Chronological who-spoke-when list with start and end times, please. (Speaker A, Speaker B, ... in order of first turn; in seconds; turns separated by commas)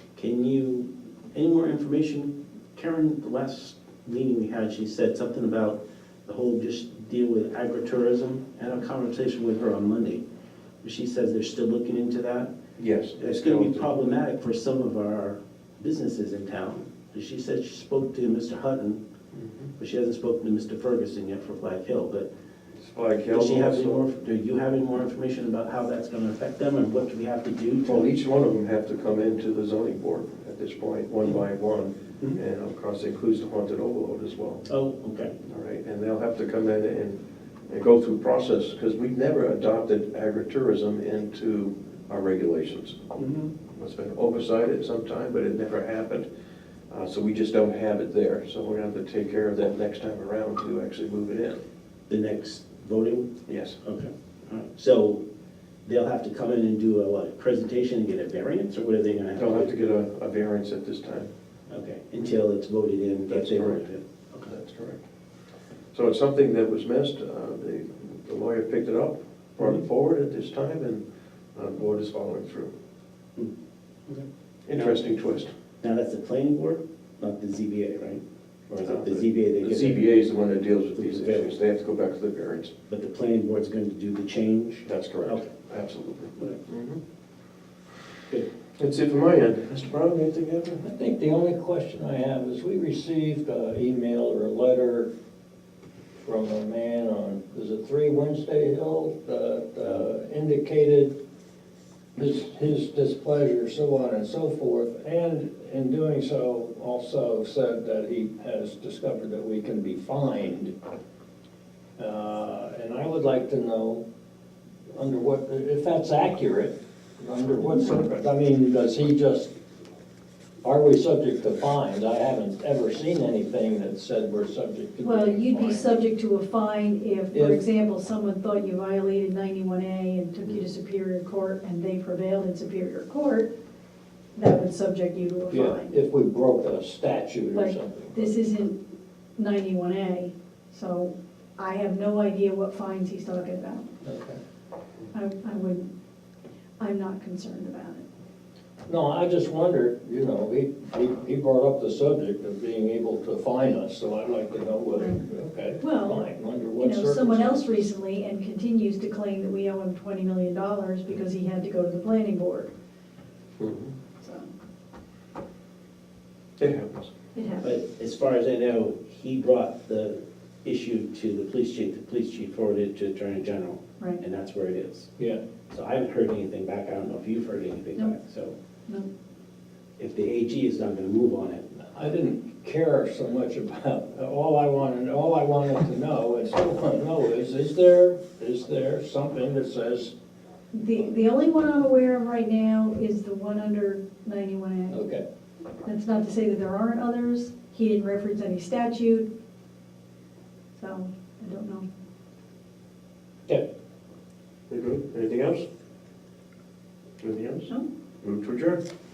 Speaker A: 0.2-10.2, Speaker A: 10.8-12.5, Speaker B: 12.8-13.9, Speaker A: 13.2-19.0, Speaker B: 19.3-19.7, Speaker A: 19.8-22.3, Speaker B: 22.8-24.0, Speaker A: 23.3-28.1, Speaker B: 27.9-34.6, Speaker A: 34.7-35.4, Speaker B: 35.4-43.0, Speaker A: 43.1-43.5, Speaker B: 43.7-46.3, Speaker B: 46.9-51.6, Speaker A: 52.1-55.2, Speaker B: 53.5-53.8, Speaker A: 55.9-59.7, Speaker B: 59.4-61.3, Speaker A: 61.7-64.5, Speaker B: 63.3-63.9, Speaker B: 64.4-65.0, Speaker B: 65.9-71.0, Speaker B: 71.5-72.7, Speaker B: 74.7-75.5, Speaker A: 75.8-80.2, Speaker B: 78.8-82.7, Speaker A: 81.0-81.5, Speaker A: 82.9-85.5, Speaker B: 84.8-87.0, Speaker B: 88.8-90.8, Speaker C: 90.8-95.1, Speaker C: 96.2-101.2, Speaker C: 102.2-110.7, Speaker C: 112.0-114.0, Speaker C: 114.9-119.5, Speaker C: 120.6-126.0, Speaker D: 125.0-133.5, Speaker C: 127.3-127.6, Speaker D: 134.4-135.9, Speaker C: 135.5-138.3, Speaker D: 137.5-138.8, Speaker D: 139.4-143.9, Speaker C: 144.0-144.4, Speaker D: 145.1-145.9, Speaker D: 146.8-148.1, Speaker C: 148.9-157.9, Speaker D: 155.0-155.2, Speaker D: 155.8-162.7, Speaker B: 163.6-163.9, Speaker D: 164.2-164.5, Speaker B: 166.6-167.1, Speaker D: 167.3-167.7, Speaker A: 167.6-175.1, Speaker A: 175.7-178.5, Speaker A: 180.0-181.7, Speaker C: 181.9-190.1, Speaker D: 190.7-195.0, Speaker C: 194.9-195.2, Speaker D: 195.8-199.3, Speaker D: 200.8-201.9, Speaker B: 204.7-205.7, Speaker B: 207.2-207.7, Speaker B: 208.2-208.8